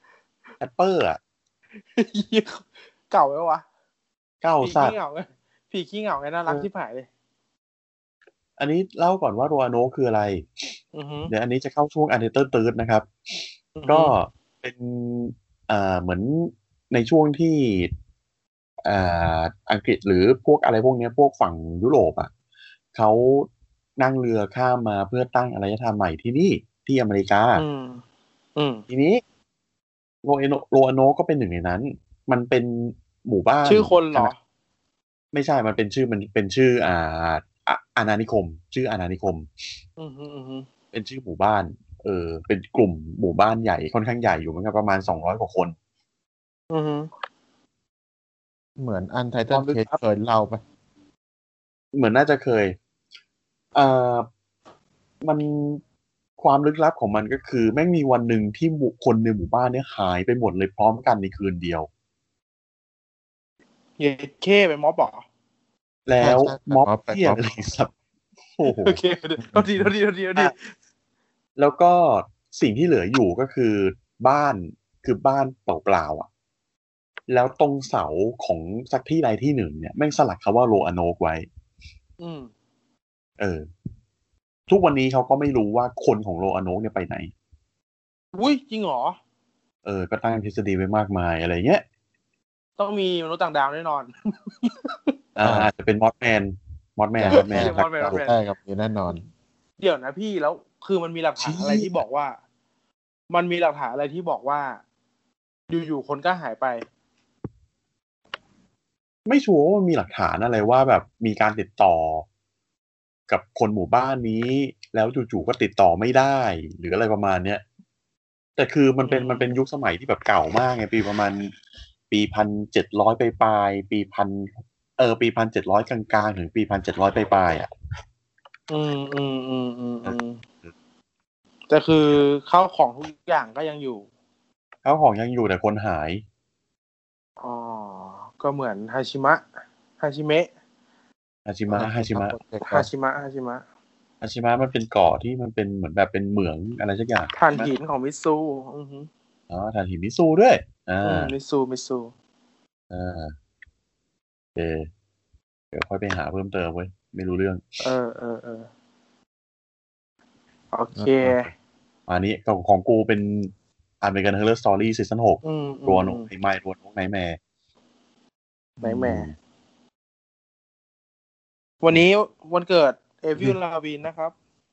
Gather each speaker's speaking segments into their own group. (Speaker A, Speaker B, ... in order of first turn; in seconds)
Speaker A: 0.6-1.2, 4.4-5.0, 8.6-10.4, 11.3-13.1, 13.8-17.9, 18.8-22.3, 22.9-27.6, 28.9-29.2, 30.2-34.3, 35.3-39.5, 40.9-45.7, 49.5-49.9, 51.9-52.8, 53.7-54.3, 55.2-55.8, 56.4-61.9, 66.1-67.9, 68.6-69.0, 71.6-76.3, 77.3-81.5, 83.4-83.6, 84.7-87.3, 89.8-91.8, 95.3-98.2, 101.4-102.0, 109.2-112.2, 113.3-117.6, 118.6-121.5, 122.1-127.7, 134.8-136.2, 141.5-142.3, 144.2-147.7, 149.5-151.3, 152.9-153.3, 154.6-154.9, 155.7-157.6, 162.1-167.4, 169.1-169.3
Speaker B: 1.9-3.6, 4.6-7.1, 10.9-11.3, 13.8-14.1, 27.5-28.0, 28.6-28.8, 33.6-34.4, 40.0-40.7, 46.7-47.1, 64.0-65.2, 68.6-70.7, 82.2-82.5, 88.3-89.2, 92.8-95.1, 97.3-98.4, 99.8-102.4, 103.3-104.8, 105.7-106.8, 119.0-119.6, 128.7-130.4, 131.7-134.1, 137.4-139.4, 140.0-140.5, 142.7-143.6, 147.3-149.1, 151.0-152.1, 157.8-158.7, 160.7-161.5, 165.4-166.3, 168.8-169.3, 171.8-174.3
Speaker C: 48.8-50.6, 66.2-67.5, 69.4-69.9, 95.4-95.7, 97.2-99.2, 141.7-142.9, 160.9-161.5